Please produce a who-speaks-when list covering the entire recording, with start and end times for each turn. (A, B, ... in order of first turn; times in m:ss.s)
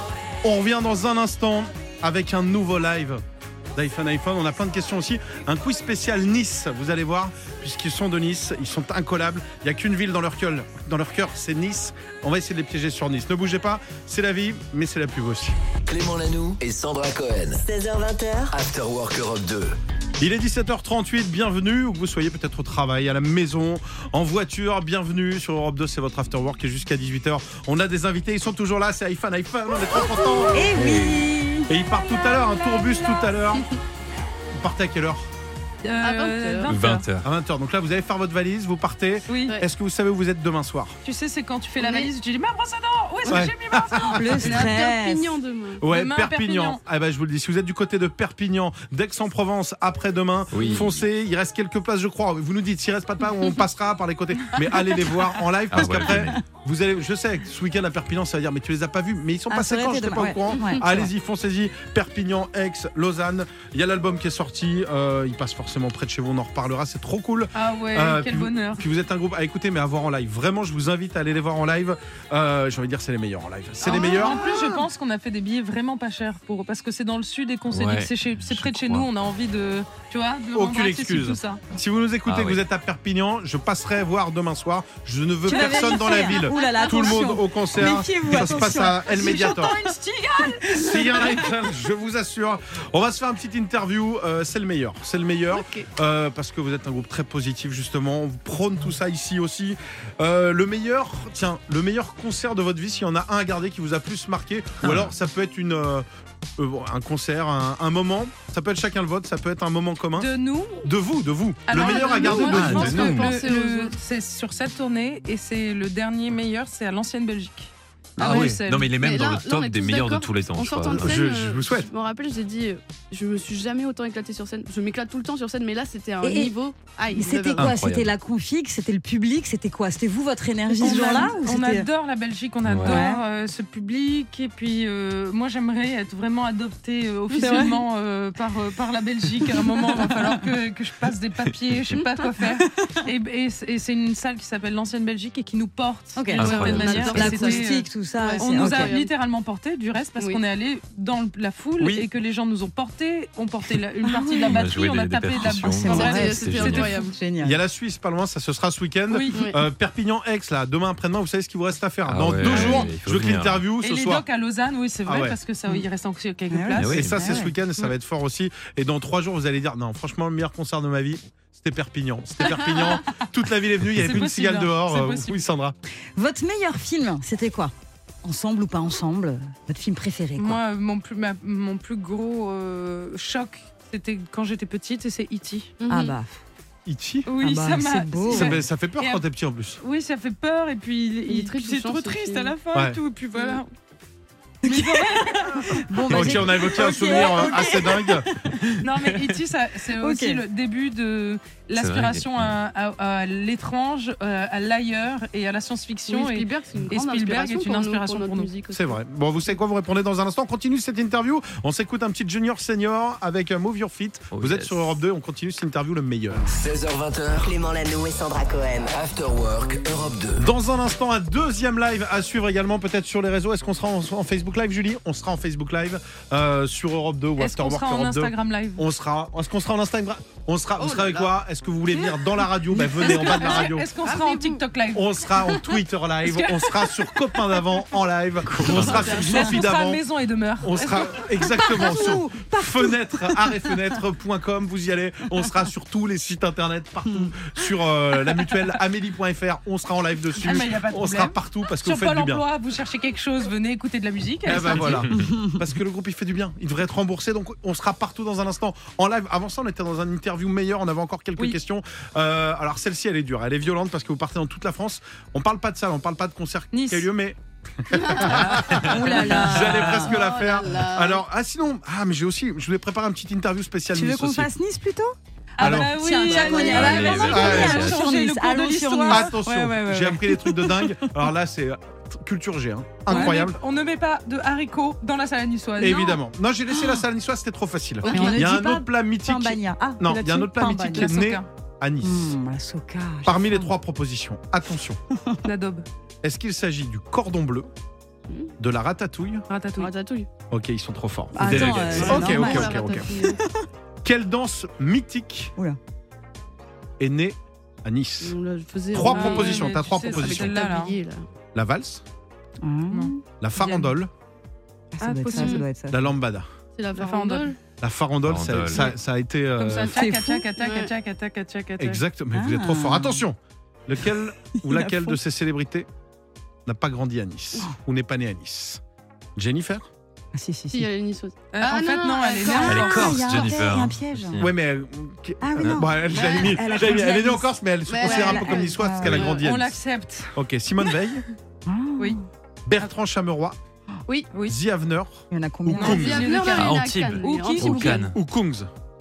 0:00.4-0:03.2 A
0:03.8-0:15.6 A
0:15.9-0:17.6 B
0:17.5-0:18.6 C
0:18.5-0:19.8 B
0:20.2-0:30.6 A
0:30.5-0:31.7 D
0:30.7-0:31.2 E
0:31.7-0:33.7 A
0:32.0-0:33.4 F
0:34.5-0:35.3 A
0:35.8-0:37.0 F
0:36.0-0:36.7 G
0:36.7-0:37.3 E
0:37.2-0:41.0 A
0:39.3-0:39.6 F
0:41.0-0:44.7 F
0:41.8-0:42.1 G
0:43.3-0:44.6 A
0:44.1-0:45.4 D
0:44.4-0:45.8 G
0:45.8-1:14.5 A
0:45.8-0:46.8 F
0:50.5-0:51.0 E
0:55.7-0:56.4 E
0:56.0-0:56.4 D
0:59.5-1:01.1 D
1:07.5-1:08.8 F
1:13.8-1:21.6 F
1:17.7-1:19.1 E
1:20.5-1:29.8 A
1:22.3-1:22.6 E
1:25.4-1:29.7 D
1:25.5-1:27.4 F
1:28.6-1:31.3 F
1:30.4-1:31.4 D
1:30.7-1:46.1 A
1:35.5-1:35.9 G
1:44.8-1:45.1 E
1:46.6-1:50.3 A
1:50.2-1:50.9 F
1:50.8-1:53.3 A
1:51.7-1:59.0 F
1:51.7-1:54.0 G
1:52.4-1:53.2 E
1:58.2-2:01.2 E
1:58.2-2:07.7 G
2:00.9-2:01.9 A
2:06.2-2:06.5 D
2:07.1-2:11.9 D
2:07.6-2:08.1 E
2:10.8-2:36.9 F
2:10.9-2:11.2 G
2:12.7-2:13.0 E
2:12.8-2:13.2 D
2:17.4-2:17.8 D
2:19.8-2:20.3 D
2:26.2-2:28.9 D
2:26.4-2:27.3 E
2:26.4-2:29.1 G
2:31.8-2:32.1 A
2:34.0-2:34.7 D
2:34.5-2:36.9 E
2:35.4-2:37.6 D
2:35.9-2:37.2 G
2:37.4-2:44.2 A
2:39.1-2:39.4 F
2:39.3-2:39.6 G
2:42.1-2:43.6 E
2:42.5-2:42.9 F
2:43.8-2:47.0 F
2:45.1-2:45.4 A
2:46.5-2:47.6 D
2:46.8-2:47.2 E
2:46.9-2:55.8 A
2:54.0-2:55.4 F
2:56.2-3:00.6 D
3:00.4-3:05.8 F
3:05.8-3:06.2 G
3:05.9-3:06.3 D
3:06.9-3:07.3 A
3:07.3-3:09.2 F
3:07.4-3:08.6 D
3:08.3-3:09.8 A
3:09.8-3:13.7 F
3:11.3-3:12.6 G
3:12.7-3:13.0 A
3:13.4-3:13.6 G
3:14.6-3:18.8 D
3:14.6-3:16.1 F
3:16.1-3:18.3 A
3:16.7-3:17.7 F
3:18.8-3:28.5 F
3:20.0-3:20.4 D
3:21.8-3:22.6 E
3:26.1-3:29.0 G
3:28.7-3:36.5 A
3:34.3-3:34.9 E
3:36.5-3:37.5 B
3:37.4-3:38.9 C
3:38.9-3:40.5 B
3:40.4-3:53.9 A
3:47.4-3:48.8 F
3:50.8-3:51.3 G
3:52.8-3:55.6 F
3:53.0-3:54.6 G
3:54.9-4:00.0 A
3:56.2-3:56.8 F
3:58.5-3:59.1 E
3:58.6-3:59.6 D
3:58.7-3:59.3 G
3:59.1-4:01.3 F
4:00.6-4:12.4 A
4:01.4-4:03.8 D
4:07.1-4:07.3 D
4:10.4-4:15.0 F
4:14.5-4:34.5 A
4:15.1-4:15.7 D
4:26.7-4:27.1 F
4:27.9-4:28.5 G
4:28.3-4:30.2 D
4:28.7-4:29.9 E
4:29.1-4:29.4 F
4:29.9-4:31.2 G
4:33.9-4:41.3 D
4:35.6-4:39.3 F
4:35.6-4:36.3 A
4:36.3-4:38.0 E
4:37.3-4:37.8 A
4:39.1-4:43.6 A
4:43.1-4:46.2 F
4:43.1-4:43.4 D
4:45.8-4:52.4 A
4:46.7-4:47.0 D
4:48.0-4:48.4 G
4:48.0-4:48.8 F
4:48.1-4:51.2 D
4:50.9-4:51.5 F
4:52.0-4:53.7 D
4:53.2-4:55.0 A
4:55.1-4:55.4 D
4:55.4-4:55.8 F
4:56.2-4:57.7 A
4:58.3-4:58.5 G
4:58.6-4:59.5 A
4:59.5-4:59.9 F
4:59.8-5:00.3 G
5:00.5-5:03.2 A
5:01.3-5:03.6 D
5:01.4-5:02.2 E
5:02.0-5:03.4 G
5:04.0-5:05.5 A
5:07.0-5:08.4 A
5:08.2-5:11.3 G
5:08.9-5:10.6 A
5:09.1-5:11.0 F
5:11.5-5:12.0 A
5:12.6-5:13.2 D
5:12.9-5:13.9 F
5:13.4-5:14.1 A
5:14.9-5:16.1 D
5:15.0-5:15.7 F
5:15.3-5:15.7 G
5:15.8-5:16.5 A
5:16.8-5:17.6 G
5:17.0-5:17.5 F
5:17.8-5:20.0 A
5:18.2-5:19.0 E
5:19.6-5:22.0 F
5:19.9-5:20.5 D
5:20.5-5:20.9 G
5:21.8-5:25.9 A
5:22.3-5:23.3 D
5:24.0-5:25.2 D
5:26.6-5:28.8 A
5:29.4-5:29.9 A
5:30.3-5:30.9 D
5:30.7-5:33.7 G
5:31.5-5:33.2 F
5:32.4-5:34.4 D
5:32.6-5:34.6 E
5:34.4-5:39.8 A
5:35.4-5:39.3 D
5:35.6-5:35.8 E
5:36.1-5:36.9 G
5:37.9-5:39.4 G
5:39.0-5:40.3 F
5:40.4-5:41.2 A
5:41.7-5:42.3 D
5:42.7-5:43.6 A
5:44.1-5:44.3 G
5:44.4-5:46.3 A
5:45.3-5:46.1 D
5:45.7-5:48.0 F
5:45.8-5:48.0 G
5:46.4-5:48.2 E
5:48.0-5:48.7 A